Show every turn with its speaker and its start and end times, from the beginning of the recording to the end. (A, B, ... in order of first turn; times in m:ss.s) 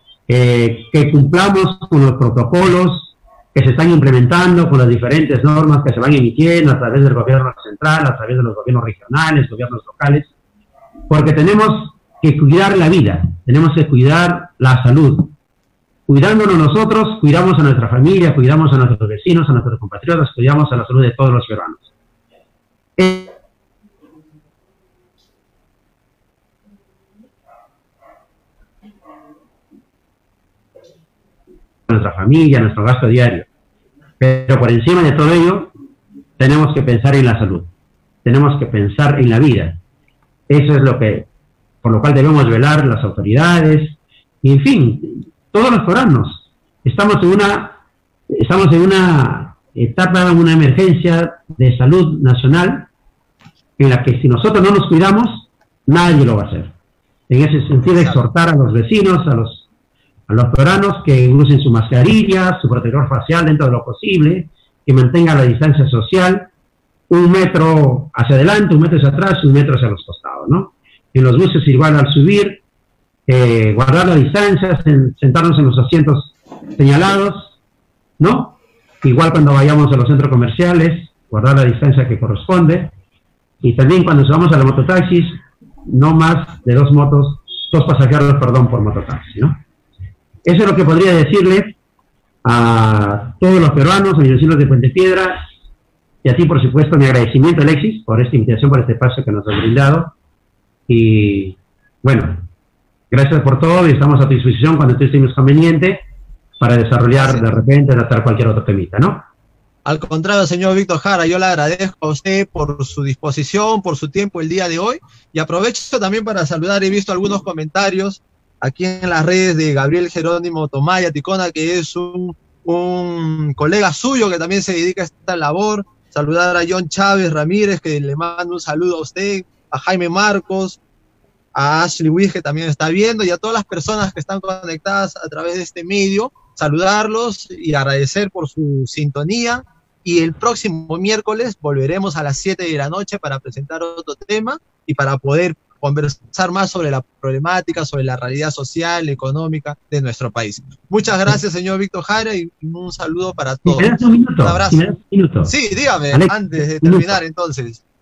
0:00.3-0:10.3 A
0:11.1-0:15.3 A
0:16.1-0:21.9 A
0:23.0-0:23.3 A
0:31.9-0:33.5 A
0:34.2-0:35.7 A
0:36.4-0:37.7 A
0:38.2-0:39.8 A
0:40.5-0:41.3 A
0:41.8-0:47.8 A
0:48.3-0:52.9 A
0:53.8-0:56.7 A
0:57.3-0:59.7 A
0:57.9-0:58.2 B
1:00.3-1:06.5 A
1:07.1-1:12.6 A
1:13.3-1:17.5 A
1:18.2-1:22.9 A
1:23.6-1:29.6 A
1:30.4-1:31.8 A
1:32.4-1:35.4 A
1:36.2-1:40.1 A
1:40.9-1:42.4 A
1:43.1-1:46.0 A
1:46.6-1:49.2 A
1:47.1-1:47.4 B
1:49.8-2:10.8 B
2:11.5-2:34.9 B
2:33.7-2:35.5 A
2:35.4-2:37.8 B
2:36.1-2:37.2 A